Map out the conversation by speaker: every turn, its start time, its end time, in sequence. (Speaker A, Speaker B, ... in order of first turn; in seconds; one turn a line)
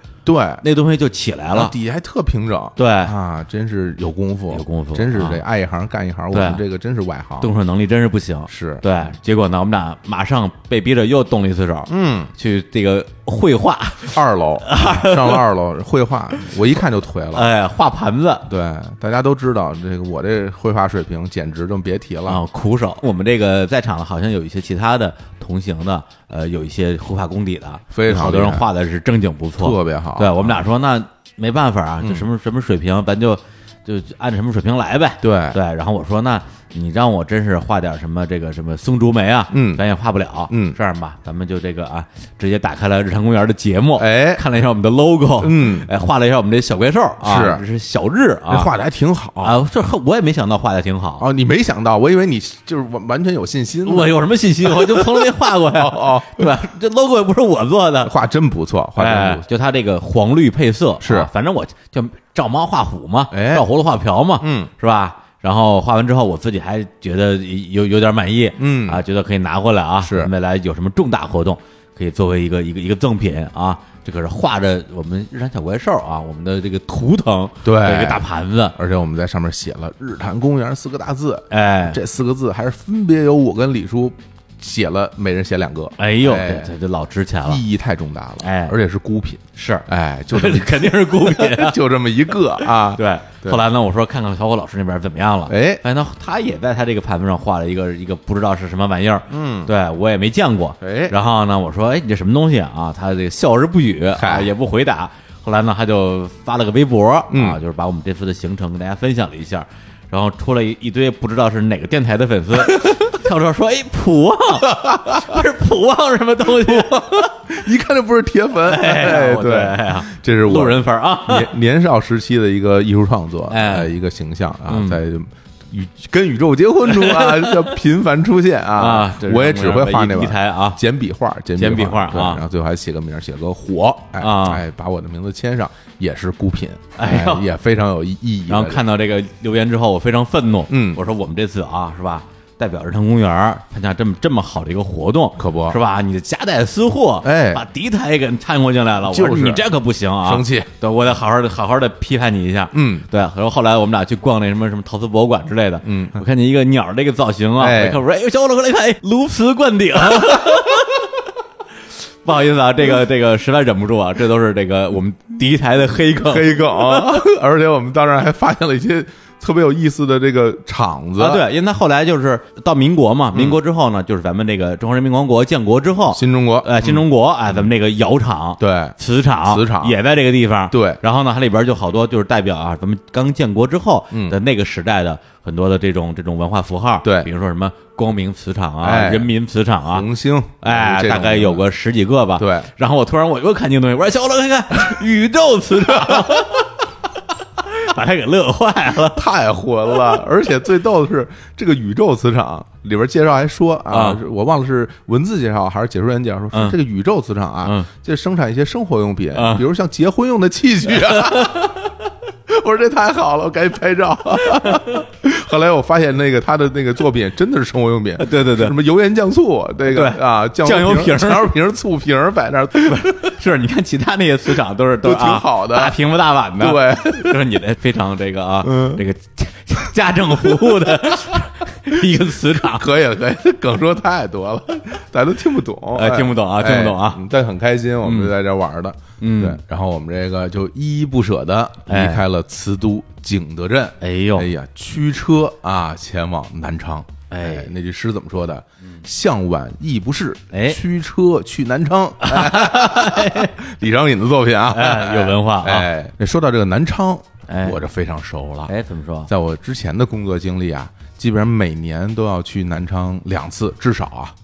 Speaker A: 0.2-0.6
Speaker B: 0.6-1.7
Speaker A: 1.5-7.5
Speaker B: 2.8-3.1
Speaker B: 4.5-5.4
Speaker B: 6.3-6.6
Speaker B: 7.4-15.4
Speaker A: 8.5-8.8
Speaker A: 11.9-12.3
Speaker A: 14.1-17.5
Speaker B: 17.3-18.5
Speaker A: 18.5-22.4
Speaker B: 22.3-48.7
Speaker A: 27.9-28.7
Speaker A: 29.6-30.6
Speaker A: 32.0-32.2
Speaker A: 35.2-35.6
Speaker A: 39.5-39.8
Speaker A: 40.5-40.8
Speaker A: 44.0-44.4
Speaker A: 45.4-45.9
Speaker A: 47.2-47.6
Speaker A: 48.5-49.6
Speaker B: 49.4-51.2
Speaker A: 51.2-56.5
Speaker B: 53.9-58.1
Speaker A: 58.0-59.4
Speaker B: 59.0-78.8
Speaker A: 61.0-61.3
Speaker A: 63.3-63.7
Speaker A: 64.4-64.7
Speaker A: 68.6-69.0
Speaker A: 70.0-70.3
Speaker A: 77.6-86.7
Speaker B: 81.5-82.0
Speaker B: 86.0-87.6
Speaker A: 87.4-93.6
Speaker B: 88.4-88.7
Speaker B: 89.5-91.8
Speaker B: 92.6-117.3
Speaker A: 95.5-95.8
Speaker A: 99.3-99.7
Speaker A: 100.8-101.1
Speaker A: 104.1-104.5
Speaker A: 107.3-107.6
Speaker A: 112.7-113.0
Speaker A: 114.7-115.4
Speaker A: 116.6-138.8
Speaker B: 118.6-121.5
Speaker B: 123.5-123.9
Speaker B: 124.7-125.0
Speaker B: 126.8-127.8
Speaker B: 128.8-130.8
Speaker B: 131.6-132.4
Speaker B: 134.2-134.6
Speaker B: 137.0-137.4
Speaker B: 138.5-161.2
Speaker A: 140.7-141.0
Speaker A: 145.4-145.8
Speaker A: 147.2-147.6
Speaker A: 149.1-149.7
Speaker A: 150.2-150.7
Speaker A: 152.7-153.1
Speaker A: 155.8-156.2
Speaker A: 157.6-158.0
Speaker B: 162.2-167.2
Speaker A: 166.3-171.4
Speaker B: 171.2-190.1
Speaker A: 173.3-173.6
Speaker A: 176.1-177.7
Speaker A: 178.6-180.0
Speaker A: 180.7-181.0
Speaker A: 184.1-184.4
Speaker A: 187.0-187.3
Speaker A: 188.8-189.3
Speaker A: 189.9-191.6
Speaker B: 190.6-196.8
Speaker A: 192.4-192.7
Speaker A: 195.9-196.4
Speaker B: 197.6-199.2
Speaker A: 199.0-211.8
Speaker B: 203.9-204.2
Speaker B: 206.5-206.8
Speaker B: 207.6-207.9
Speaker B: 209.3-209.6
Speaker B: 210.9-211.9
Speaker A: 212.5-223.3
Speaker B: 214.6-215.0
Speaker B: 218.2-218.7
Speaker B: 219.9-221.5
Speaker B: 222.8-232.9
Speaker A: 225.0-226.0
Speaker A: 226.6-227.4
Speaker A: 228.6-229.0
Speaker A: 230.4-231.4
Speaker A: 232.5-258.7
Speaker B: 235.9-237.2
Speaker B: 238.0-238.3
Speaker B: 239.2-239.6
Speaker B: 241.9-242.2
Speaker B: 244.0-244.5
Speaker B: 247.3-247.7
Speaker B: 250.5-250.8
Speaker B: 252.2-253.5
Speaker B: 254.7-255.9
Speaker B: 257.5-257.8
Speaker B: 258.6-259.3
Speaker A: 259.3-264.3